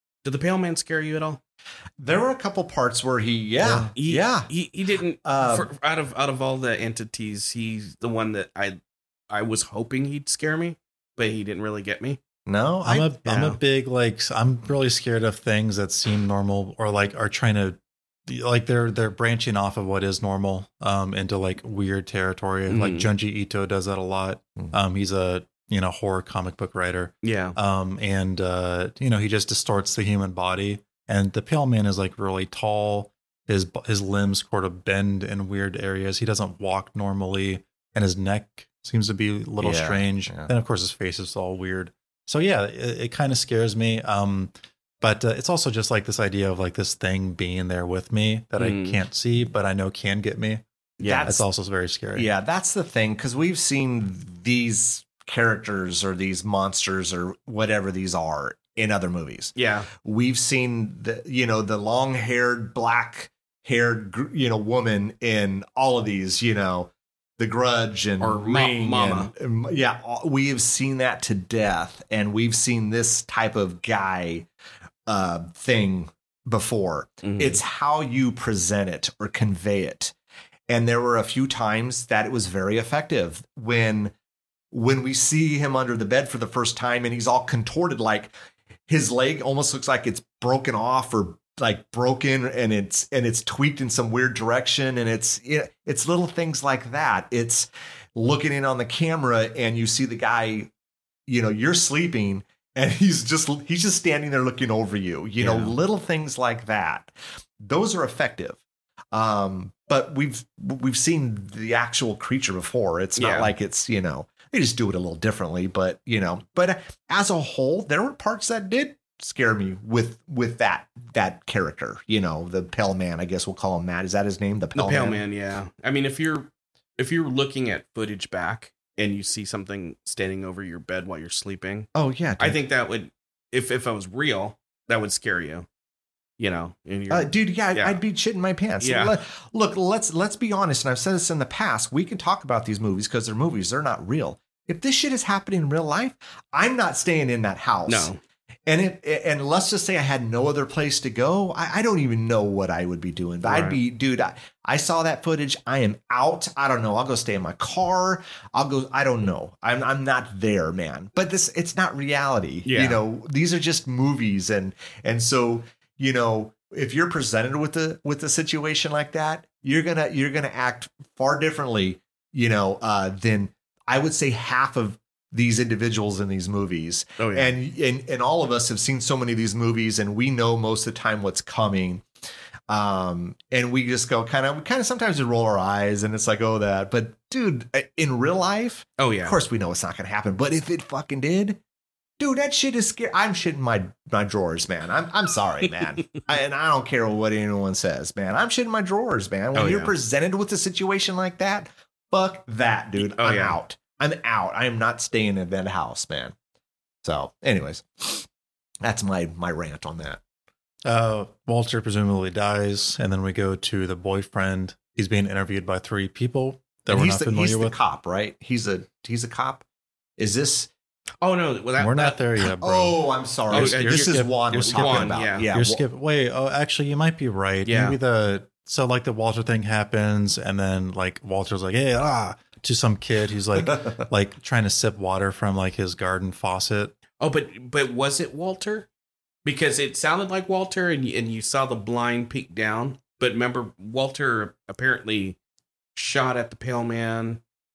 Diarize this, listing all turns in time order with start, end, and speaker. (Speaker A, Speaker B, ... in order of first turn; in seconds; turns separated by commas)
Speaker A: 0.2-1.4, Speaker B: 2.0-4.5, Speaker A: 3.9-8.8, Speaker B: 5.2-5.7, Speaker A: 9.3-12.2, Speaker B: 12.5-13.1, Speaker C: 12.8-50.6, Speaker A: 13.2-13.6, Speaker A: 22.7-23.1, Speaker A: 27.2-27.6, Speaker B: 39.6-40.5, Speaker A: 48.6-49.0, Speaker A: 51.0-51.4, Speaker B: 51.0-51.4, Speaker C: 51.2-52.3, Speaker B: 52.1-74.5, Speaker A: 59.5-59.9, Speaker A: 68.2-69.3, Speaker B: 75.1-80.1, Speaker A: 77.2-77.6, Speaker B: 80.7-84.1, Speaker B: 84.7-88.3, Speaker B: 88.9-100.7, Speaker B: 101.3-108.6, Speaker A: 105.4-105.7, Speaker B: 109.1-125.2, Speaker A: 113.2-113.5, Speaker A: 124.8-135.7, Speaker B: 131.9-132.6, Speaker A: 136.4-138.0, Speaker B: 137.1-148.1, Speaker A: 138.8-139.1, Speaker A: 147.8-148.2, Speaker B: 148.7-182.1, Speaker A: 153.4-153.8, Speaker A: 162.7-163.0, Speaker A: 177.2-177.5, Speaker B: 182.7-191.6, Speaker A: 189.0-189.4, Speaker B: 192.2-206.3, Speaker A: 199.5-199.9, Speaker A: 203.0-203.6, Speaker B: 207.0-208.3, Speaker B: 208.8-210.2, Speaker C: 210.8-217.8, Speaker B: 216.9-219.6, Speaker B: 220.2-220.7, Speaker A: 221.2-222.3, Speaker C: 221.8-236.9, Speaker B: 222.6-225.8, Speaker A: 223.5-225.5, Speaker A: 227.7-228.0, Speaker A: 237.2-238.9, Speaker A: 239.4-245.4, Speaker A: 245.9-247.4